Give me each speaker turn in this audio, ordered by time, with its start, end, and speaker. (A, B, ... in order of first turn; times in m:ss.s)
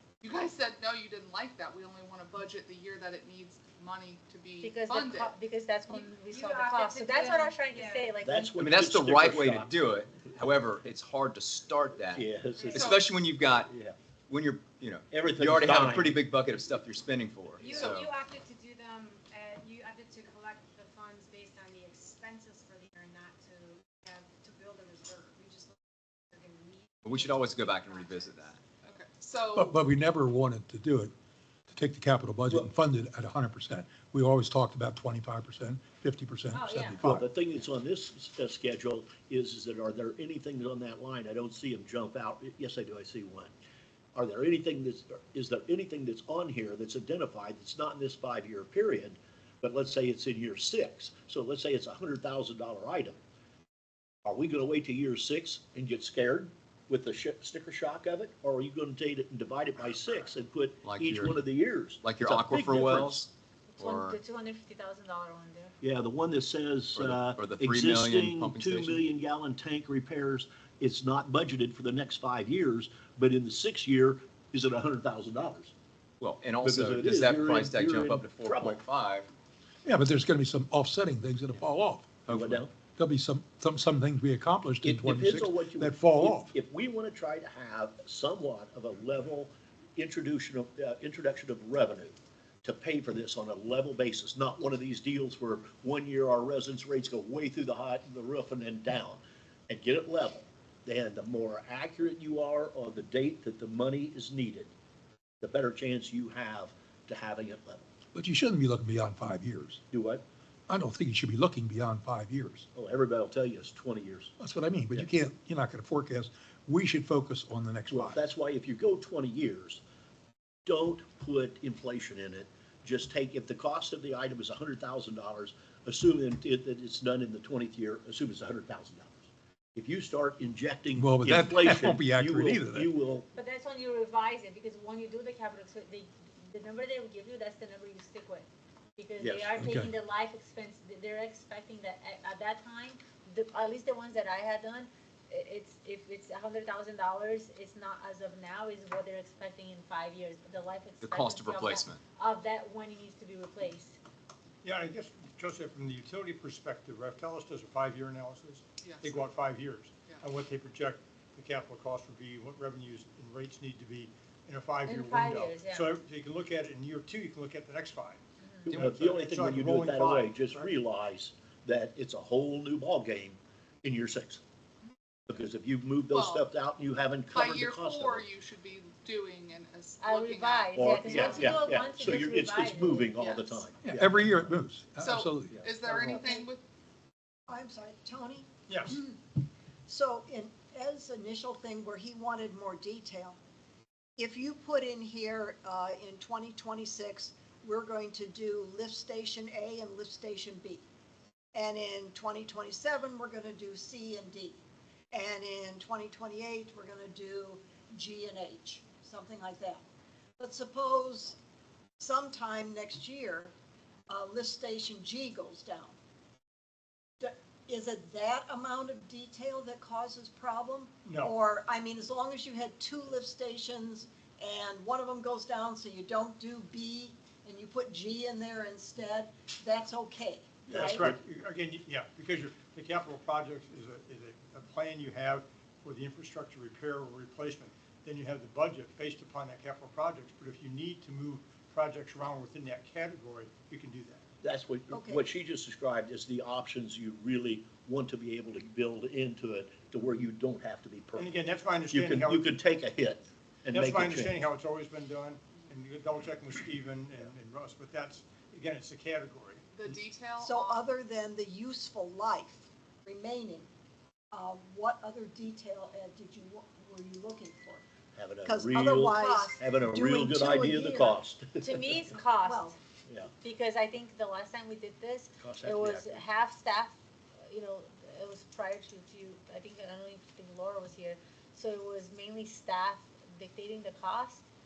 0:00.2-0:05.4 A
0:04.6-0:08.6 B
0:05.9-0:08.2 C
0:08.2-0:10.4 D
0:08.6-0:12.3 E
0:12.1-0:14.0 D
0:12.5-0:12.9 C
0:12.7-0:13.2 A
0:12.8-0:13.7 E
0:14.3-0:18.1 E
0:15.1-0:16.2 D
0:17.6-0:28.6 C
0:17.7-0:18.1 A
0:27.0-0:28.5 E
0:28.8-0:29.7 A
0:29.5-0:31.1 F
0:31.7-0:37.2 F
0:36.5-0:37.2 B
0:37.0-0:43.5 D
0:44.1-0:53.2 D
0:54.2-1:03.2 D
1:00.8-1:01.3 E
1:02.0-1:03.3 E
1:03.7-1:05.7 B
1:03.8-1:04.2 E
1:05.8-1:15.7 D
1:06.9-1:09.0 E
1:16.2-1:19.3 E
1:16.6-1:18.8 D
1:19.8-1:26.5 F
1:22.3-1:22.7 D
1:24.8-1:44.7 D
1:45.4-1:47.9 D
1:48.1-1:49.8 F
1:49.9-1:50.2 D
1:50.7-1:52.6 F
1:52.7-1:54.3 D
1:54.4-1:58.2 F
1:57.9-1:59.8 D
2:00.6-2:09.2 D
2:09.8-2:13.3 D
2:11.0-2:12.9 F
2:13.3-2:34.0 B
2:19.2-2:19.5 D
2:19.6-2:19.9 F
2:31.0-2:32.0 E
2:34.6-2:50.7 G
2:38.8-2:39.3 A
2:44.8-2:46.0 B
2:48.4-2:48.7 B
2:48.7-2:54.4 D
2:55.3-2:58.3 D
2:56.1-2:56.4 A
2:57.3-3:01.5 A
3:00.0-3:03.6 B
3:00.8-3:04.5 D
3:03.2-3:03.4 A
3:03.8-3:05.7 F
3:05.0-3:06.6 A
3:05.5-3:06.1 D
3:05.9-3:06.5 H
3:07.5-3:09.2 H
3:08.7-3:09.0 G
3:09.9-3:13.4 H
3:14.2-3:20.8 H
3:21.5-3:24.6 H
3:25.1-3:29.8 H
3:30.4-3:31.4 H
3:32.0-3:33.5 H
3:34.1-3:35.9 H
3:37.2-3:51.1 H
3:41.0-3:41.3 G
3:50.7-4:04.2 G
3:50.7-3:51.1 D
4:04.4-4:11.3 D
4:04.9-4:05.2 H
4:11.2-4:12.5 G
4:11.9-4:14.4 D
4:13.7-4:20.1 G
4:19.7-4:20.8 A
4:20.4-4:23.7 H
4:24.3-4:27.8 H
4:28.1-4:32.1 D
4:28.4-4:31.2 H
4:31.6-4:32.8 B
4:32.4-4:32.8 H
4:33.4-4:44.4 B
4:35.4-4:36.2 D